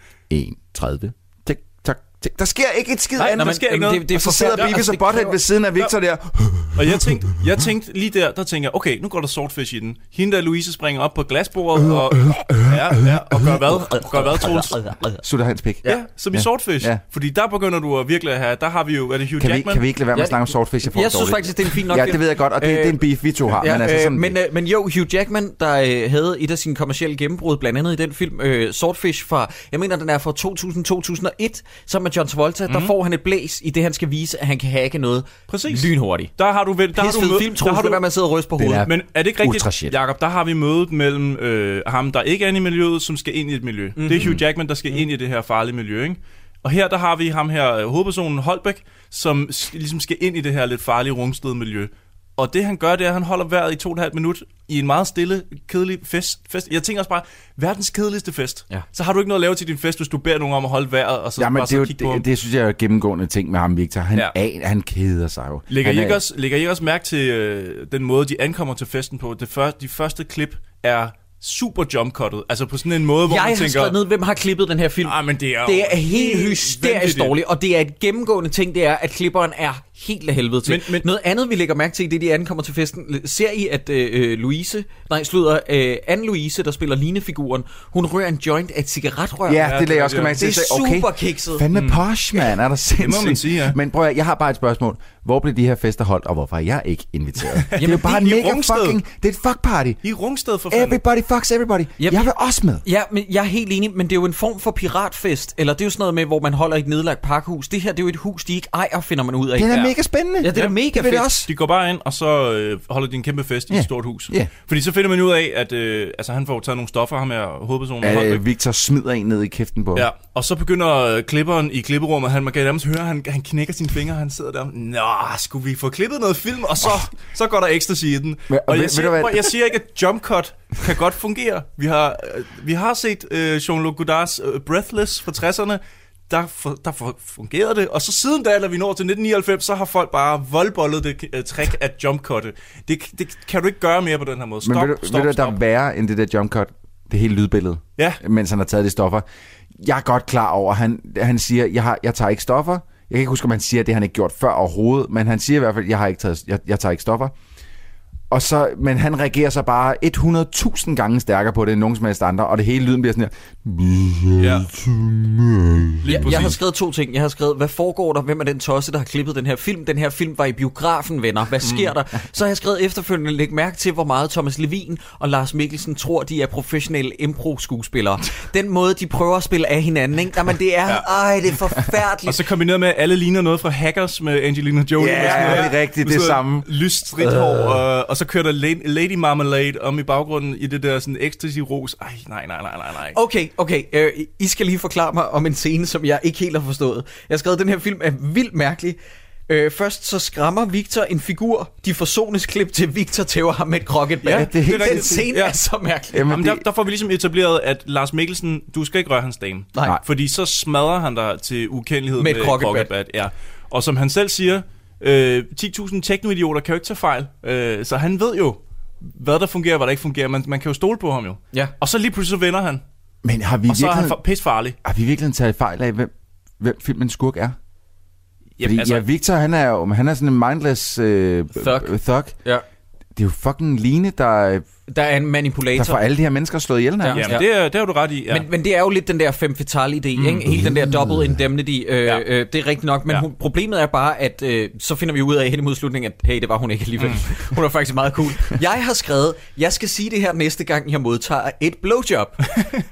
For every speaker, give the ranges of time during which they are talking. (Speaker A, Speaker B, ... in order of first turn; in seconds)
Speaker A: 0.3-7.1, 11.8-17.0, 19.4-24.4, 38.6-40.0, 61.4-66.2, 89.5-100.0, 100.7-102.8, 109.6-111.5, 113.7-114.5, 118.0-120.1, 126.8-127.1, 128.5-129.6, 144.6-149.3, 149.8-157.3, 158.3-166.6, 185.0-186.7, 204.3-205.2, 206.1-206.7, 223.2-224.2, 224.8-227.6, 228.6-232.3, 233.2-234.7, 235.8-237.4, 240.4-241.4
Speaker B: 3.2-4.9, 6.7-14.8, 15.8-19.8, 32.7-32.9, 35.5-38.0, 38.7-62.2, 65.7-74.0, 75.0-77.4, 80.7-81.1, 89.7-90.4, 91.7-92.0, 93.0-93.8, 97.5-99.0, 100.0-101.0, 111.3-118.4, 120.0-145.6, 164.4-164.7, 166.0-166.6, 171.6-171.9, 182.3-193.2, 204.2-205.6, 206.2-222.8, 223.7-224.8, 228.6-229.1, 237.1-238.5, 240.2-240.6
Speaker C: 3.3-5.4, 14.7-15.2, 20.1-23.0, 23.5-36.3, 36.9-38.9, 44.0-44.3, 73.3-89.8, 90.3-91.7, 97.8-98.0, 102.0-102.3, 102.8-111.3, 166.1-182.4, 185.2-185.7, 193.1-206.3, 212.2-212.9, 231.6-231.9, 234.9-236.0, 237.0-237.4, 238.3-252.5